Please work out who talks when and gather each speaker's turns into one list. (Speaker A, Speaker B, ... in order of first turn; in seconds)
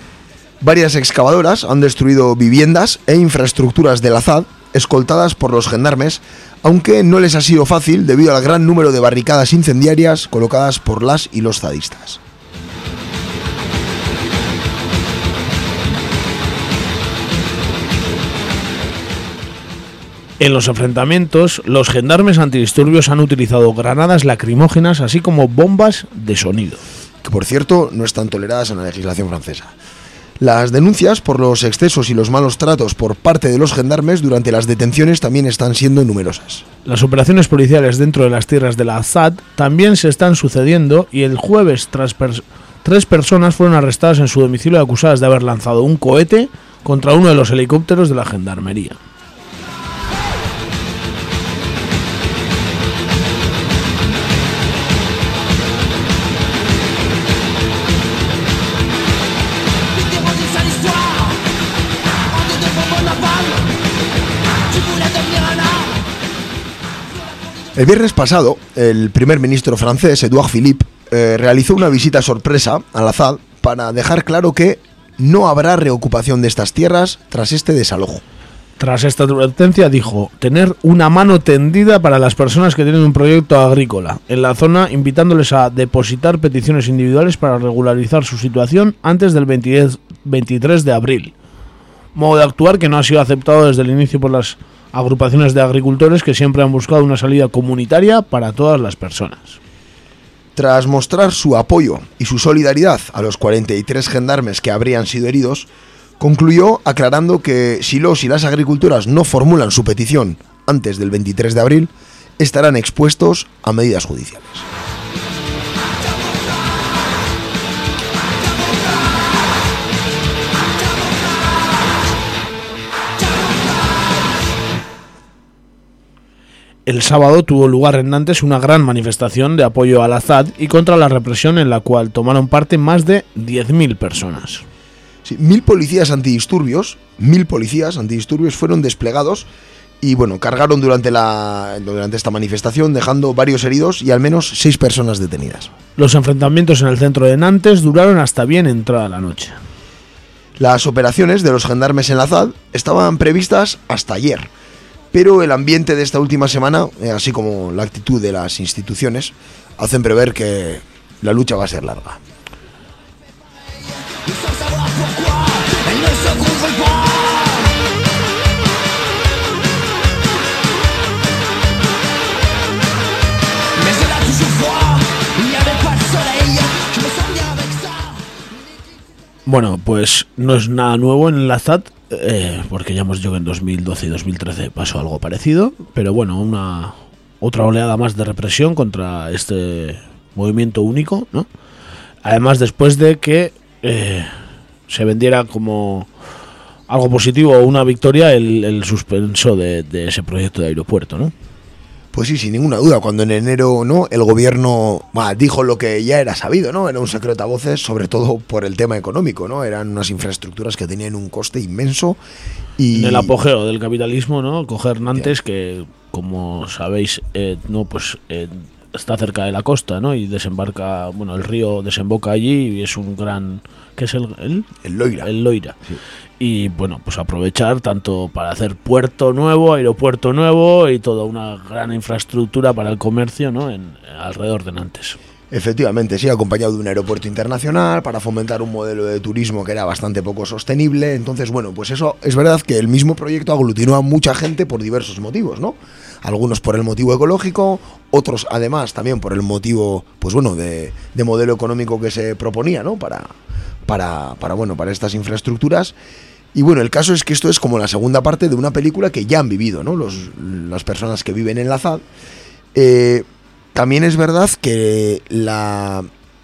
Speaker A: 0.6-12.2, 27.2-29.7, 30.4-36.6, 67.7-78.2, 100.5-105.7, 106.2-114.7, 135.2-139.5, 140.0-145.7, 150.6-154.5, 155.1-162.2, 202.1-212.2, 212.8-213.3, 224.8-225.3, 235.5-253.3, 253.8-255.9, 256.5-262.0, 262.7-266.1
Speaker B: 20.4-26.8, 36.9-49.0, 78.8-91.3, 92.1-99.6, 126.8-134.6, 146.0-149.6, 179.4-191.5, 192.2-194.3, 194.9-196.1, 196.9-201.3, 212.9-224.7, 225.2-225.8, 226.4-235.2
Speaker C: 59.9-61.4, 62.3-63.6, 64.7-66.0, 164.2-167.7, 173.8-178.2